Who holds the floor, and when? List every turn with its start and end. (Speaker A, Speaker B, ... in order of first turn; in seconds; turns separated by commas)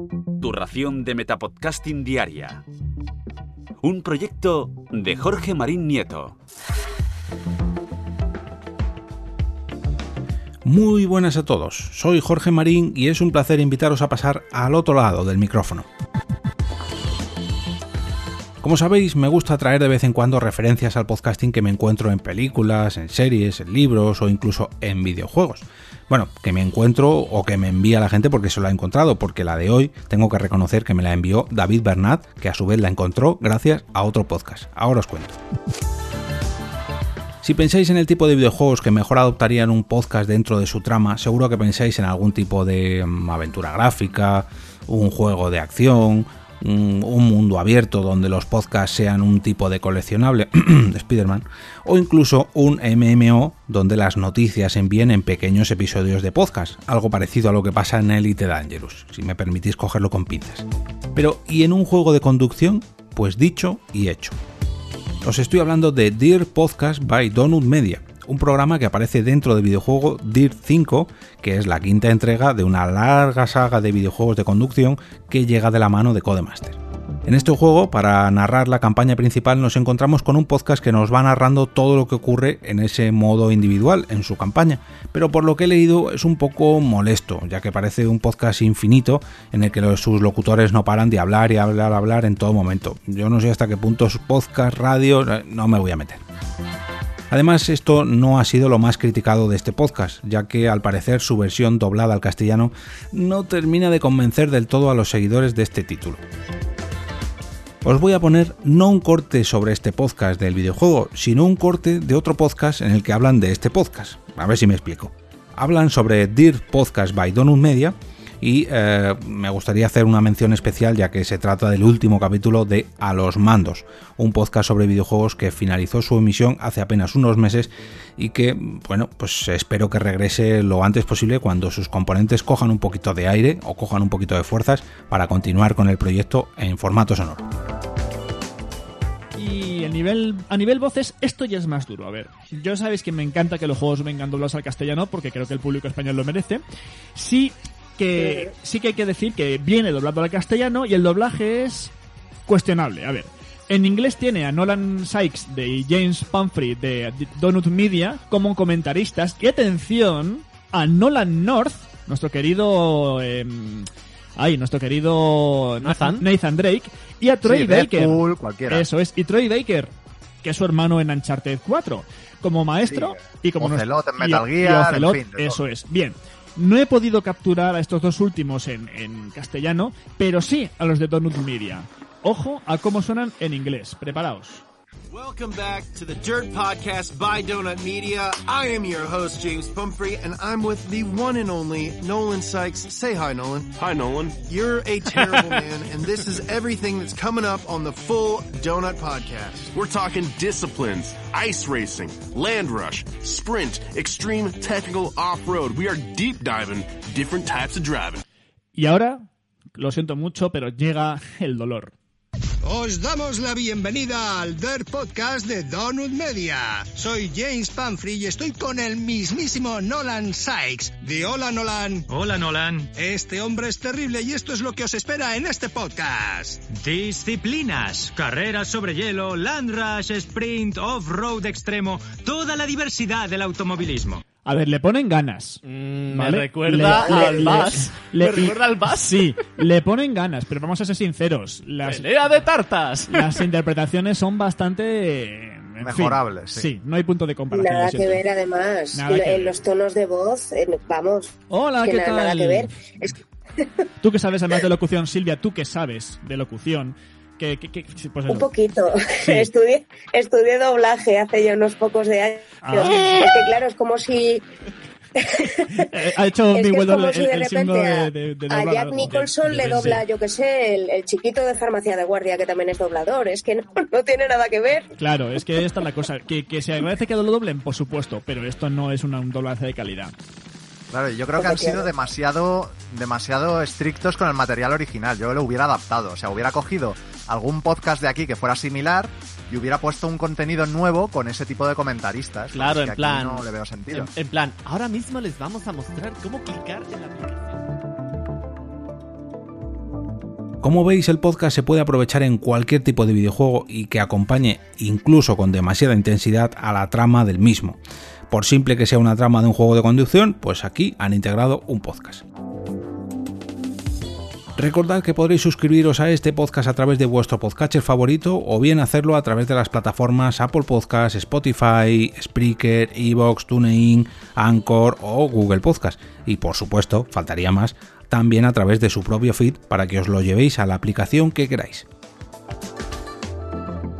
Speaker A: 0.4-2.6, Speaker A: 3.8-6.4, Speaker B: 10.7-15.9, Speaker B: 18.6-35.4, Speaker B: 37.4-64.4, Speaker B: 65.2-96.2, Speaker B: 97.3-106.2, Speaker B: 107.8-137.4, Speaker C: 139.3-146.6, Speaker C: 147.2-151.9, Speaker C: 152.5-184.6, Speaker D: 165.8-166.2, Speaker E: 167.4-168.8, Speaker E: 172.8-175.6, Speaker F: 185.1-193.7, Speaker G: 193.8-194.4, Speaker F: 194.4-199.7, Speaker G: 195.1-195.6, Speaker G: 199.7-208.2, Speaker C: 208.8-211.9, Speaker H: 212.7-221.9, Speaker I: 222.1-222.9, Speaker H: 223.1-226.5, Speaker I: 226.7-234.2, Speaker C: 234.4-242.1, Speaker D: 235.7-239.1, Speaker J: 236.8-237.7, Speaker D: 241.9-243.1, Speaker C: 243.1-248.2, Speaker E: 245.8-246.7, Speaker J: 247.5-253.7, Speaker C: 248.9-249.6, Speaker C: 251.5-252.7, Speaker C: 254.0-258.5, Speaker J: 258.3-264.4, Speaker C: 259.2-259.5, Speaker C: 262.6-263.2, Speaker J: 265.2-265.8, Speaker C: 265.6-270.0, Speaker J: 266.5-274.9, Speaker C: 275.0-280.1, Speaker E: 280.9-294.1, Speaker J: 281.4-281.9, Speaker D: 292.5-297.6, Speaker B: 300.6-307.8, Speaker B: 308.3-312.2, Speaker B: 314.6-331.9